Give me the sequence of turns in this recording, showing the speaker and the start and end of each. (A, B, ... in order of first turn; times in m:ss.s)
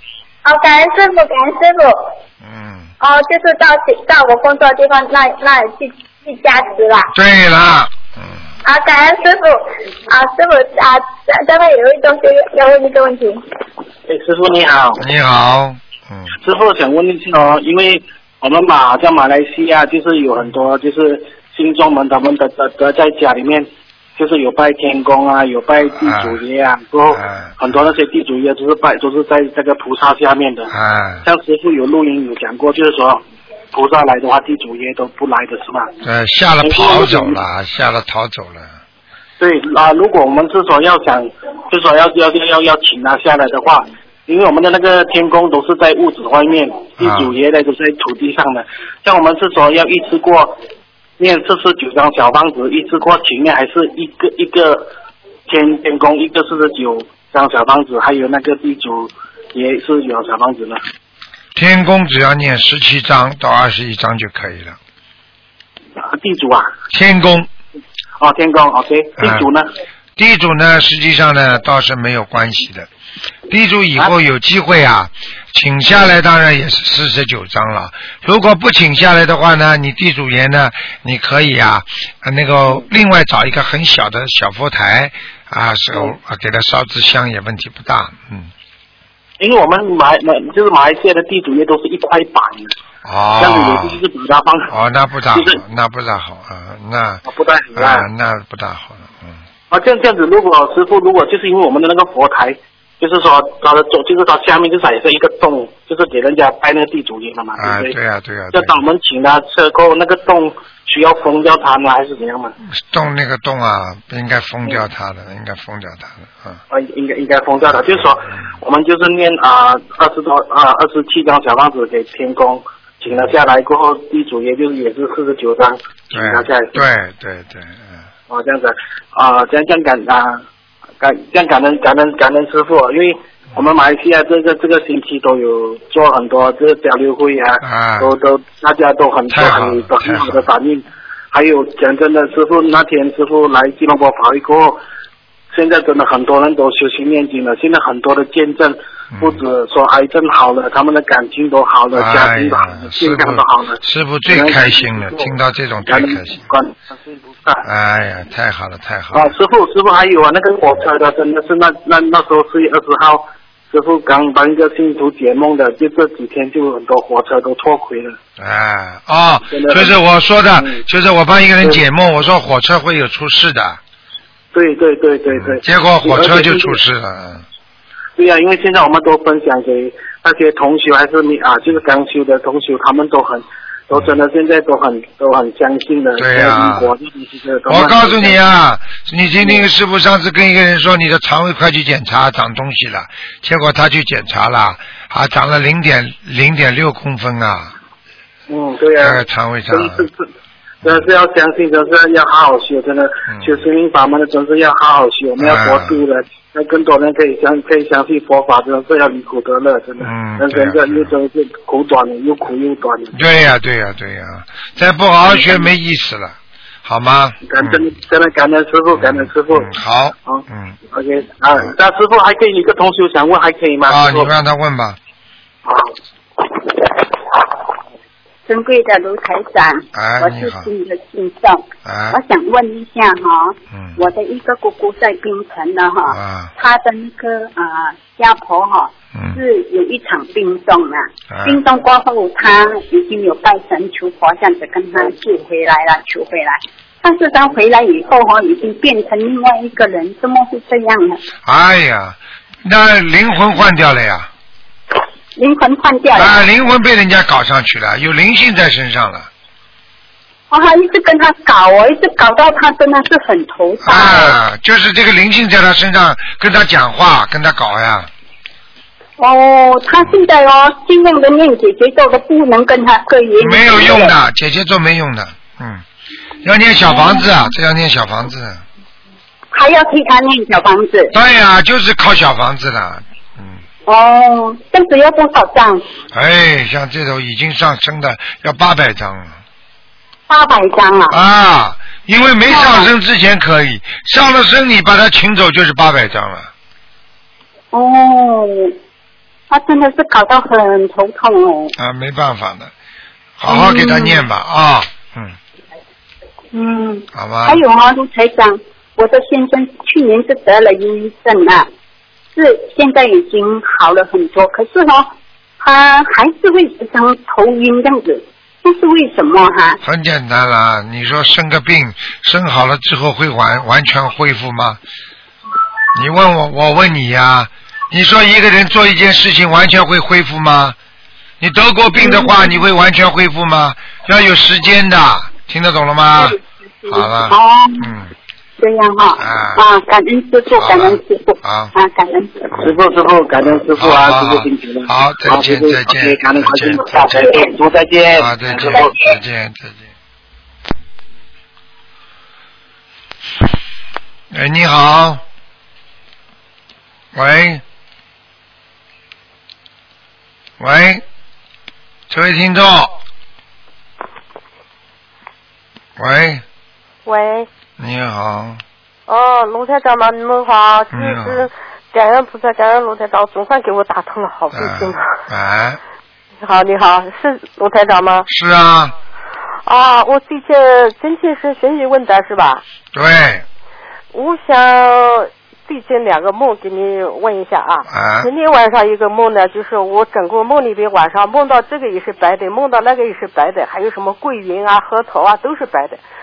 0:00.4-0:02.1 A
0:02.4-0:02.9 B
0:03.0-0:07.1 A
0:07.1-0:08.4 B
0:08.6-0:13.4 A
0:14.1-0:15.0 C
0:15.0-0:16.4 B
0:16.4-0:30.7 C
0:26.0-0:26.4 B
0:27.1-0:27.8 B
0:30.7-0:31.2 B
0:31.2-0:35.9 C
0:36.0-0:38.7 B
0:36.6-0:37.4 C
0:39.4-0:50.6 C
0:47.0-0:47.3 B
0:51.2-0:54.9 C
0:55.5-1:00.8 C
1:01.5-1:04.8 B
1:06.0-1:06.7 C
1:06.9-1:07.5 B
1:08.2-1:09.7 C
1:09.2-1:09.4 B
1:10.2-1:12.9 B
1:13.5-1:28.5 B
1:29.4-1:32.7 C
1:33.0-1:34.0 B
1:33.4-1:34.7 C
1:34.7-1:37.2 B
1:35.3-1:35.6 C
1:37.2-1:38.1 C
1:37.8-1:39.4 B
1:39.7-1:48.0 C
1:47.6-1:48.7 B
1:48.5-1:52.5 C
1:52.7-1:56.6 B
1:56.7-2:06.8 C
1:57.7-1:58.0 B
2:06.1-2:08.0 B
2:08.3-2:10.4 C
2:11.0-2:24.8 C
2:17.6-2:18.1 B
2:19.3-2:20.4 B
2:25.5-2:35.3 C
2:29.1-2:29.4 B
2:31.9-2:36.5 B
2:35.9-2:37.6 C
2:37.6-2:39.3 B
2:39.1-2:48.2 C
2:48.4-2:53.8 B
2:49.5-2:49.9 C
2:50.6-2:50.8 C
2:54.5-2:56.8 C
2:55.3-2:57.4 B
2:58.2-3:08.4 C
3:06.2-3:06.9 B
3:07.7-3:17.7 B
3:09.4-3:09.6 C
3:18.5-3:19.2 C
3:19.0-3:20.0 B
3:19.7-3:20.3 C
3:20.8-3:33.2 C
3:23.3-3:23.6 B
3:25.4-3:26.0 B
3:30.0-3:31.1 B
3:33.1-3:37.8 B
3:35.2-3:35.7 C
3:37.4-3:39.7 C
3:39.0-3:40.8 B
3:40.2-3:44.3 C
3:43.9-3:45.0 B
3:45.6-3:45.9 C
3:48.4-4:11.2 D
3:49.9-3:50.7 B
3:51.8-3:52.2 B
3:53.7-3:54.0 B
3:56.1-3:56.5 B
3:59.1-3:59.4 B
4:01.3-4:01.6 B
4:11.4-4:14.3 B
4:15.4-4:16.4 D
4:16.1-4:19.3 B
4:20.5-4:24.4 D
4:23.8-4:28.1 B
4:29.2-4:34.1 D
4:33.4-4:35.8 B
4:36.4-4:38.6 B
4:36.9-4:37.3 D
4:39.5-4:41.1 D
4:41.1-4:43.6 B
4:43.8-4:45.8 D
4:46.1-4:49.4 B
4:50.3-4:51.2 D
4:51.1-4:56.5 B
4:52.5-4:52.9 D
4:57.7-4:58.8 D
4:59.5-5:01.7 D
5:01.8-5:02.7 B
5:03.4-5:05.4 B
5:03.5-5:04.3 D
5:06.5-5:11.7 D
5:07.1-5:07.6 B
5:12.3-5:19.8 D
5:19.8-5:24.8 B
5:25.9-5:30.8 B
5:31.4-5:38.1 B
5:31.9-5:32.7 D
5:36.2-5:37.9 D
5:38.6-5:42.6 D
5:39.2-5:39.6 B
5:40.5-5:41.7 B
5:42.6-5:49.0 C
5:43.4-5:47.4 B
5:48.2-5:49.9 B
5:54.3-5:55.2 B
5:57.1-5:57.6 B
6:00.6-6:01.0 B
6:02.1-6:02.9 B
6:06.0-6:06.4 B
6:07.0-6:07.5 E
6:07.8-6:08.6 B
6:09.1-6:15.2 E
6:10.9-6:11.5 B
6:14.5-6:15.8 B
6:16.4-6:18.3 E
6:18.3-6:18.9 B
6:19.6-6:22.6 E
6:22.9-6:23.4 B
6:24.1-6:36.0 E
6:27.9-6:28.3 B